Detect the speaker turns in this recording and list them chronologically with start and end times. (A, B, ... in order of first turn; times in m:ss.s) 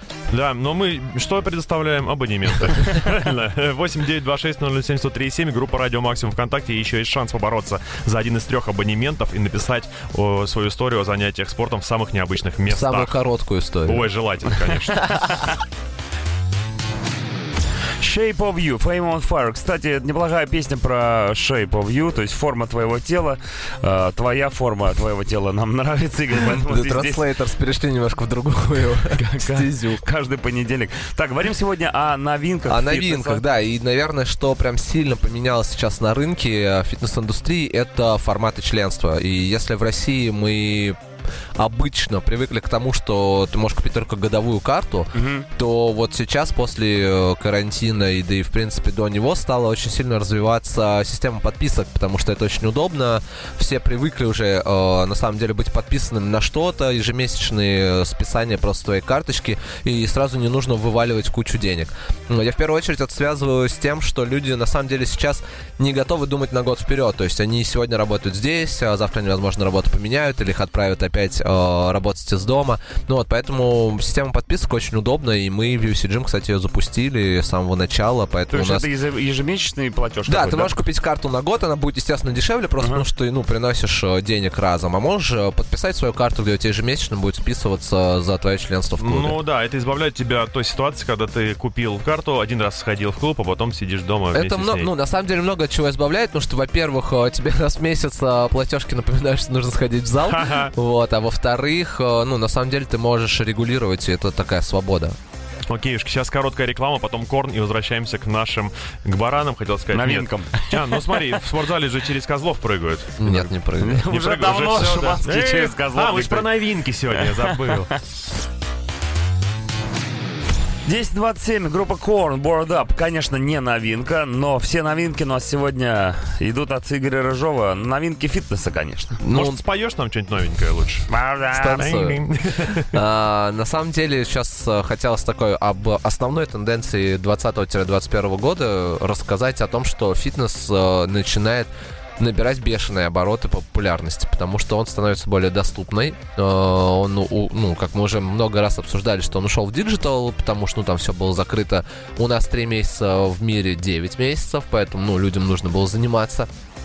0:00.3-0:13.2 A
0:12.7-0:14.0 B
0:13.8-0:15.3 A
0:18.0-0:27.3 C
0:26.3-0:30.0 B
0:29.1-0:33.4 C
0:32.7-0:41.0 B
0:41.6-1:18.9 B
0:45.1-0:45.5 C
1:18.5-1:20.8 C
1:20.3-1:29.4 B
1:22.8-1:23.0 C
1:29.0-1:34.9 A
1:34.3-1:45.1 B
1:40.2-1:40.7 A
1:45.7-1:53.5 A
1:49.9-1:51.4 C
1:53.2-1:54.1 B
1:53.8-1:56.6 C
1:54.1-1:57.9 A
1:57.1-1:58.0 C
2:00.8-2:09.2 C
2:09.2-2:09.6 B
2:09.3-2:11.1 A
2:11.1-2:11.9 C
2:11.5-2:12.2 B
2:11.8-2:12.9 A
2:12.9-2:36.5 B